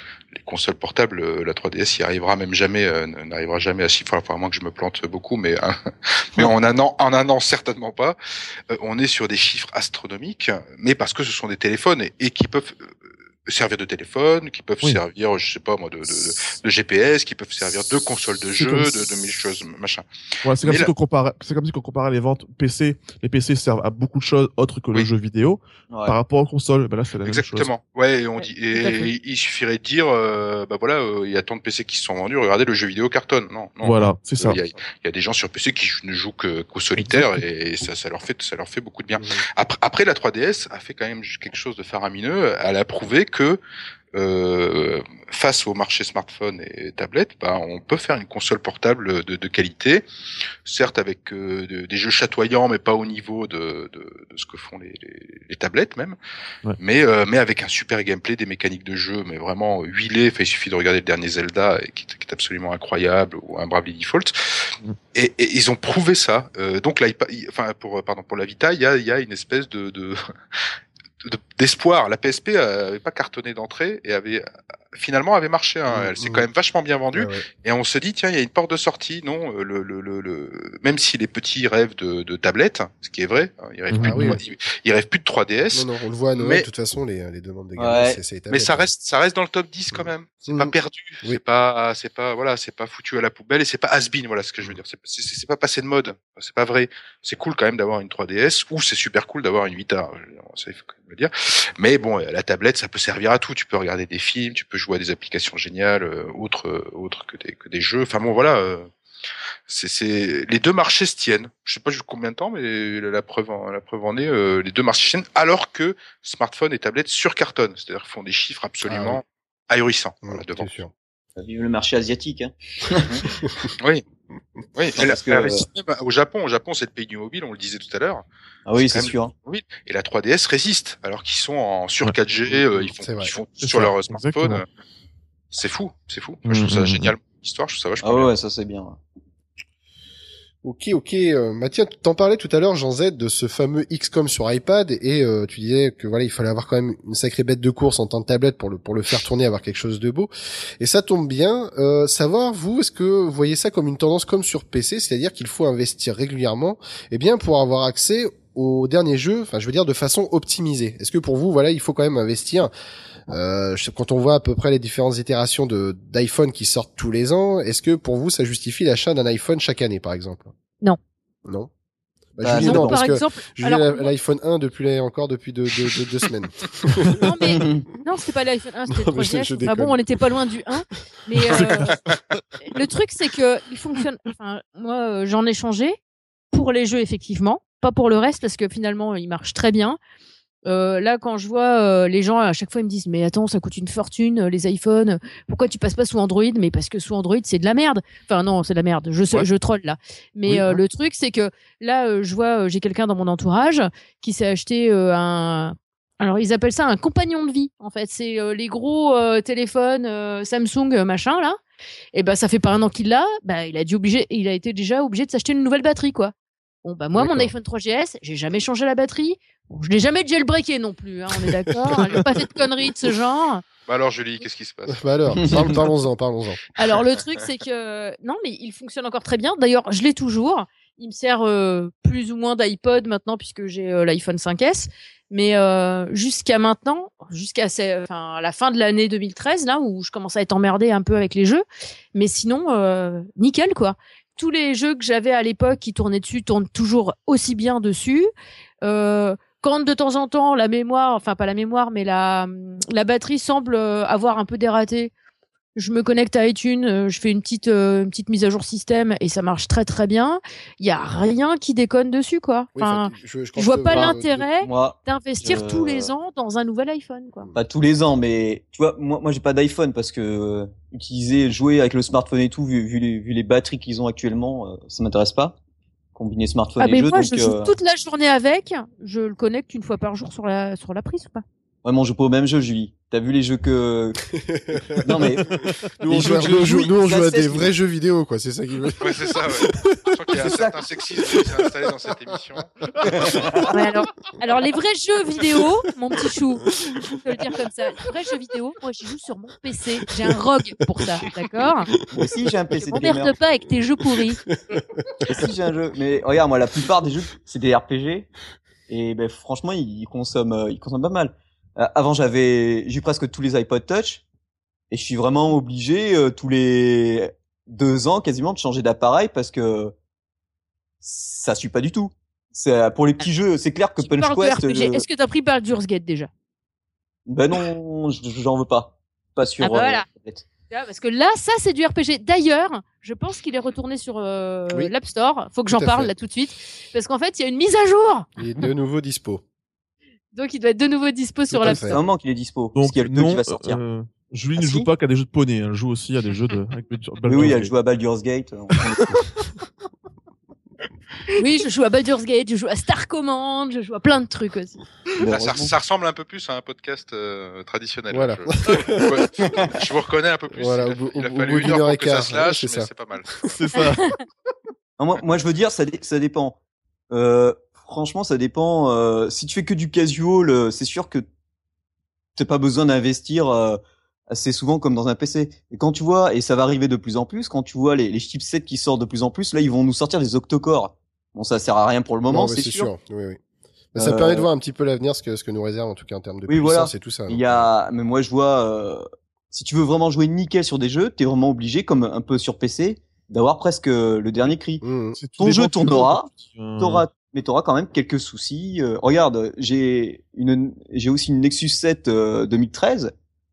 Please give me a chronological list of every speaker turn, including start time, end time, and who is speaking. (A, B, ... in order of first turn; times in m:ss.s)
0:00.3-0:08.2 A
0:08.7-0:12.9 A
0:13.5-0:20.0 A
0:18.6-0:19.1 B
0:20.4-0:27.7 B
0:20.6-0:20.9 A
0:25.9-0:26.2 C
0:27.2-0:43.6 A
0:28.8-0:29.1 D
0:33.8-0:34.6 B
0:37.0-0:37.3 B
0:44.1-0:50.1 A
0:50.6-0:56.2 A
0:56.8-1:10.6 A
1:11.2-1:26.7 A
1:15.9-1:16.5 E
1:17.1-1:17.5 E
1:23.9-1:24.4 B
1:24.0-1:24.4 E
1:25.7-1:28.9 E
1:27.8-1:28.2 C
1:28.5-1:48.9 A
1:29.9-1:31.4 E
1:49.7-2:00.8 A
1:58.8-1:59.2 E
2:00.2-2:00.9 E
2:01.4-2:03.3 C
2:04.8-2:08.2 A
2:05.0-2:05.7 C
2:08.7-2:09.3 C
2:08.8-2:14.7 A
2:12.5-2:13.3 E
2:13.6-2:14.6 B
2:15.5-2:18.3 A
2:16.5-2:17.1 B
2:18.0-2:19.0 C
2:20.6-2:42.7 E
2:43.3-2:50.5 E
2:52.4-2:57.6 E
2:52.4-2:53.0 C
2:52.6-2:54.1 D
2:57.2-3:02.0 D
2:57.6-2:57.8 C
2:58.9-3:00.0 E
3:02.6-3:06.0 D
3:06.5-3:10.0 D
3:10.6-3:31.6 D
3:20.5-3:20.8 B
3:32.1-3:36.3 D
3:36.8-3:43.6 D
3:37.2-3:37.5 E
3:43.9-3:45.7 A
3:44.9-3:46.6 E
3:46.8-4:08.3 D
4:08.8-4:15.1 D
4:15.8-4:27.5 D
4:22.8-4:24.5 E
4:23.9-4:26.1 C
4:27.5-4:35.6 C
4:36.2-4:37.7 C
4:36.8-4:41.4 D
4:41.8-4:44.3 C
4:44.5-4:50.1 E
4:45.0-4:47.4 C
4:46.3-4:47.7 D
4:49.0-4:53.0 A
4:50.4-4:50.8 C
4:51.3-4:51.6 E
4:53.1-4:53.5 E
4:53.1-4:53.7 C
4:53.7-5:01.9 D
5:02.1-5:03.4 C
5:02.8-5:04.4 D
5:04.6-5:05.2 E
5:05.2-5:08.3 C
5:08.9-5:14.2 C
5:14.9-5:19.9 C
5:21.0-5:25.0 C
5:24.0-5:26.3 D
5:27.3-5:30.5 C
5:29.6-5:30.1 D
5:30.7-5:38.3 D
5:35.7-5:36.1 E
5:38.4-5:39.4 E
5:40.3-5:42.0 D
5:41.5-5:42.0 E
5:41.6-5:43.8 C
5:42.8-5:47.7 B
5:44.6-5:44.9 A
5:47.3-5:49.2 C
5:51.3-5:54.9 D
5:55.2-5:55.7 C
5:55.3-6:03.3 A
5:58.1-5:59.2 E
6:00.5-6:03.5 E
6:03.5-6:04.1 B
6:05.0-6:06.6 C
6:07.1-6:11.2 C
6:12.4-6:22.9 C
6:22.3-6:23.4 E
6:23.9-6:27.7 E
6:24.0-6:24.5 C
6:26.5-6:34.8 C
6:34.8-6:35.2 E
6:35.2-6:37.0 B
6:35.4-6:43.1 C